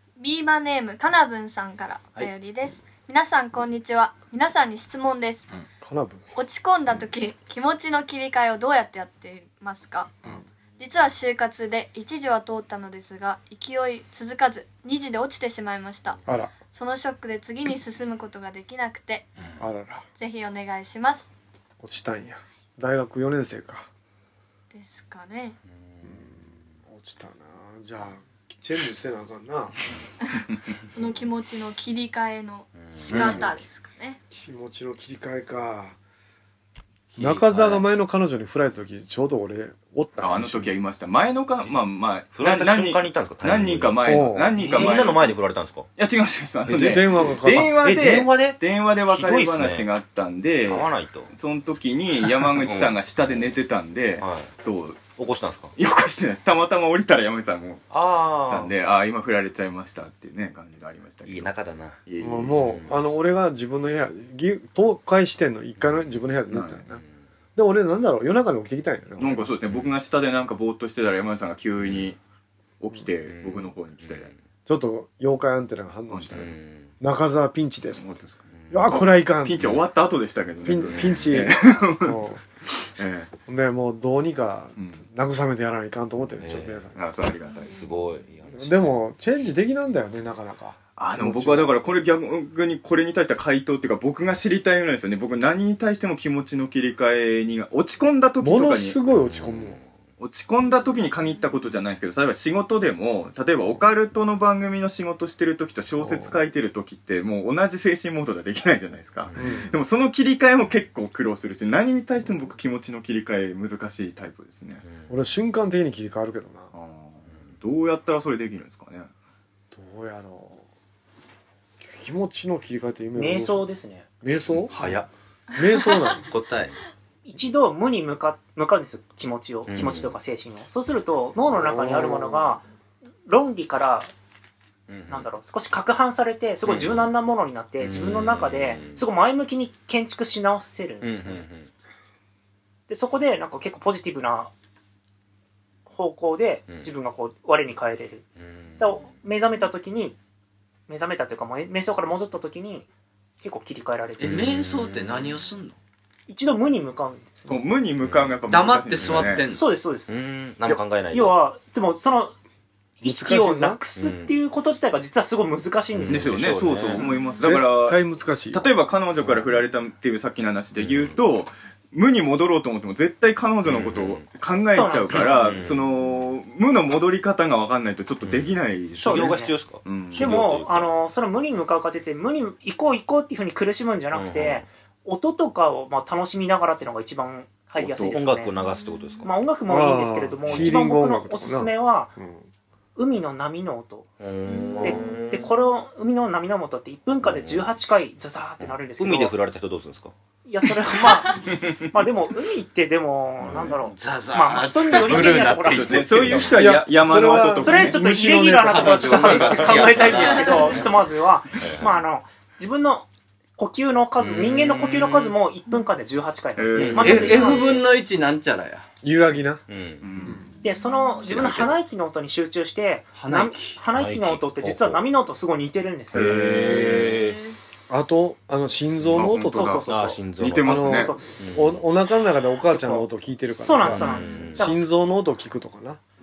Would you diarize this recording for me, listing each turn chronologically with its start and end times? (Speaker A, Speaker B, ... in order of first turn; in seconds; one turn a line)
Speaker A: 0.2-5.5
Speaker B: 5.8-6.3
Speaker A: 6.3-10.2
Speaker A: 10.8-16.2
Speaker B: 16.2-16.5
Speaker A: 16.7-19.3
Speaker B: 19.6-20.0
Speaker A: 20.2-21.3
Speaker B: 21.8-23.9
Speaker A: 24.7-25.6
Speaker B: 26.0-29.8
Speaker A: 30.9-34.2
Speaker C: 32.8-33.3
Speaker D: 33.0-33.6
Speaker B: 34.3-36.0
Speaker D: 37.1-37.8
Speaker B: 37.2-40.8
Speaker E: 40.2-45.4
Speaker C: 42.3-45.9
Speaker B: 44.0-45.0
Speaker E: 46.0-55.1
Speaker C: 46.7-49.9
Speaker B: 46.7-47.8
Speaker C: 50.7-51.3
Speaker C: 52.2-53.0
Speaker C: 54.2-54.5
Speaker C: 55.1-55.7
Speaker E: 55.8-62.8
Speaker C: 57.9-58.7
Speaker C: 61.2-62.0
Speaker B: 62.2-67.0
Speaker C: 62.5-62.9
Speaker E: 66.5-66.8
Speaker B: 67.6-69.5
Speaker E: 69.2-72.2
Speaker C: 71.8-72.1
Speaker E: 72.8-74.3
Speaker C: 73.2-74.4
Speaker B: 74.7-78.1
Speaker E: 76.1-76.5
Speaker C: 76.3-76.9
Speaker E: 77.9-83.3
Speaker C: 78.5-78.8
Speaker B: 78.7-79.8
Speaker B: 80.6-82.4
Speaker B: 83.5-87.0
Speaker D: 86.4-86.8
Speaker E: 86.9-88.0
Speaker C: 87.7-88.9
Speaker B: 88.6-91.8
Speaker E: 91.0-99.0
Speaker B: 98.4-99.8
Speaker C: 99.3-99.9
Speaker E: 100.2-114.8
Speaker A: 100.8-101.6
Speaker B: 106.0-106.4
Speaker B: 109.4-109.7
Speaker B: 115.1-116.7
Speaker E: 116.7-119.1
Speaker C: 117.3-117.5
Speaker B: 119.7-120.6
Speaker B: 121.8-123.7
Speaker F: 123.2-124.1
Speaker B: 124.2-124.7
Speaker D: 124.7-125.1
Speaker C: 124.7-125.0
Speaker B: 125.6-126.3
Speaker D: 126.3-126.7
Speaker F: 127.2-132.6
Speaker C: 129.7-130.1
Speaker B: 131.5-132.6
Speaker F: 133.2-134.1
Speaker C: 134.9-135.3
Speaker F: 135.1-141.4
Speaker C: 136.6-137.1
Speaker C: 137.8-139.0
Speaker C: 141.0-141.7
Speaker F: 142.9-144.5
Speaker F: 145.9-148.2
Speaker C: 148.4-149.1
Speaker F: 148.8-150.2
Speaker F: 150.9-152.9
Speaker F: 153.4-154.6
Speaker C: 154.2-155.4
Speaker D: 154.2-155.8
Speaker F: 156.3-157.3
Speaker E: 157.5-159.5
Speaker C: 158.0-158.4
Speaker D: 158.5-159.7
Speaker C: 159.0-159.4
Speaker F: 159.5-162.3
Speaker C: 160.1-161.3
Speaker F: 163.0-166.3
Speaker B: 163.0-163.8
Speaker C: 164.0-164.3
Speaker C: 165.9-167.1
Speaker E: 166.1-180.4
Speaker A: 167.0-167.4
Speaker B: 167.4-168.7
Speaker C: 170.8-171.2
Speaker C: 173.7-174.3
Speaker F: 174.7-175.6
Speaker C: 175.2-176.2
Speaker C: 178.2-180.9
Speaker F: 179.0-179.6
Speaker F: 180.1-188.6
Speaker C: 184.1-184.7
Speaker E: 187.8-188.2
Speaker C: 188.1-189.3
Speaker A: 188.6-189.2
Speaker F: 189.2-192.1
Speaker B: 189.7-192.5
Speaker F: 193.0-194.1
Speaker C: 194.2-195.5
Speaker A: 194.4-195.4
Speaker F: 194.8-199.4
Speaker C: 197.2-197.7
Speaker C: 199.0-200.1
Speaker F: 200.5-206.5
Speaker D: 203.9-206.6
Speaker E: 205.7-208.0
Speaker B: 206.5-209.5
Speaker F: 207.6-217.8
Speaker D: 208.5-210.9
Speaker A: 210.1-210.8
Speaker C: 211.6-212.0
Speaker C: 214.2-215.3
Speaker E: 216.6-217.6
Speaker C: 216.8-217.5
Speaker D: 216.9-218.8
Speaker B: 219.0-219.6
Speaker C: 219.7-220.4
Speaker E: 220.0-220.5
Speaker F: 220.6-226.4
Speaker A: 220.8-221.2
Speaker D: 221.3-221.7
Speaker C: 221.3-221.7
Speaker D: 223.2-223.8
Speaker C: 223.9-225.0
Speaker C: 226.1-227.4
Speaker A: 226.9-227.6
Speaker B: 227.9-229.9
Speaker E: 229.1-231.2
Speaker F: 229.5-231.2
Speaker C: 229.9-231.8
Speaker B: 230.6-236.0
Speaker F: 232.7-234.8
Speaker C: 233.8-234.7
Speaker A: 234.0-234.5